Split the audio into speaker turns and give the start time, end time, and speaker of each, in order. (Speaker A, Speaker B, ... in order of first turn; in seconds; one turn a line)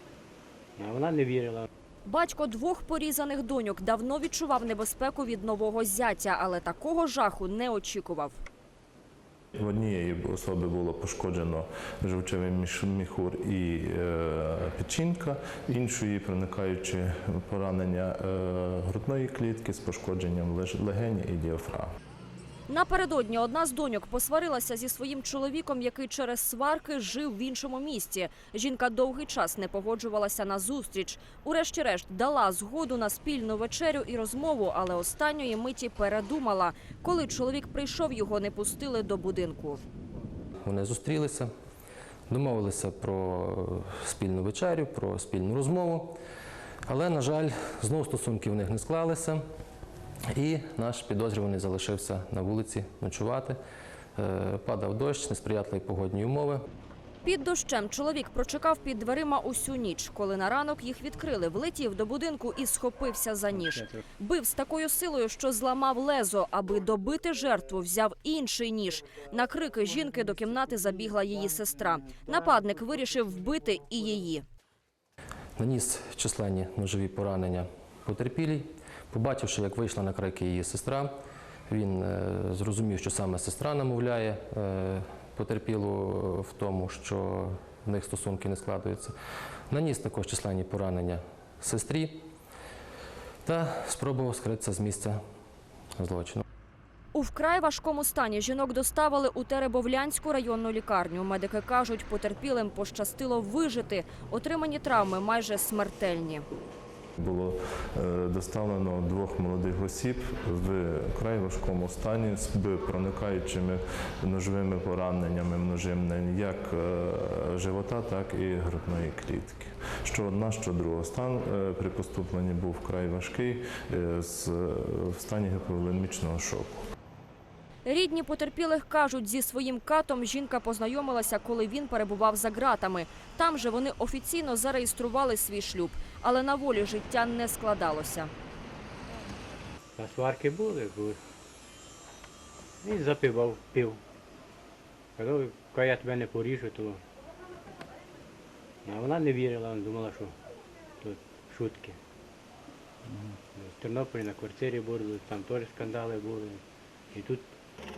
Speaker A: 0.8-1.7
Speaker B: 2.1-8.4
Speaker C: 9.6-21.9
Speaker B: 22.7-39.8
Speaker D: 40.6-41.5
Speaker D: 42.3-46.1
Speaker D: 46.9-49.4
Speaker D: 50.3-53.6
Speaker D: 54.2-56.6
Speaker B: 57.2-74.4
Speaker A: 63.5-64.0
Speaker D: 75.5-81.1
Speaker D: 81.7-89.1
Speaker D: 89.7-92.2
Speaker D: 93.4-95.2
Speaker D: 96.0-96.4
Speaker B: 97.1-106.4
Speaker C: 107.2-126.8
Speaker B: 127.8-138.3
Speaker A: 140.0-141.2
Speaker A: 142.8-144.0
Speaker A: 145.2-147.0
Speaker A: 148.8-150.3
Speaker A: 151.0-152.0
Speaker A: 153.5-157.5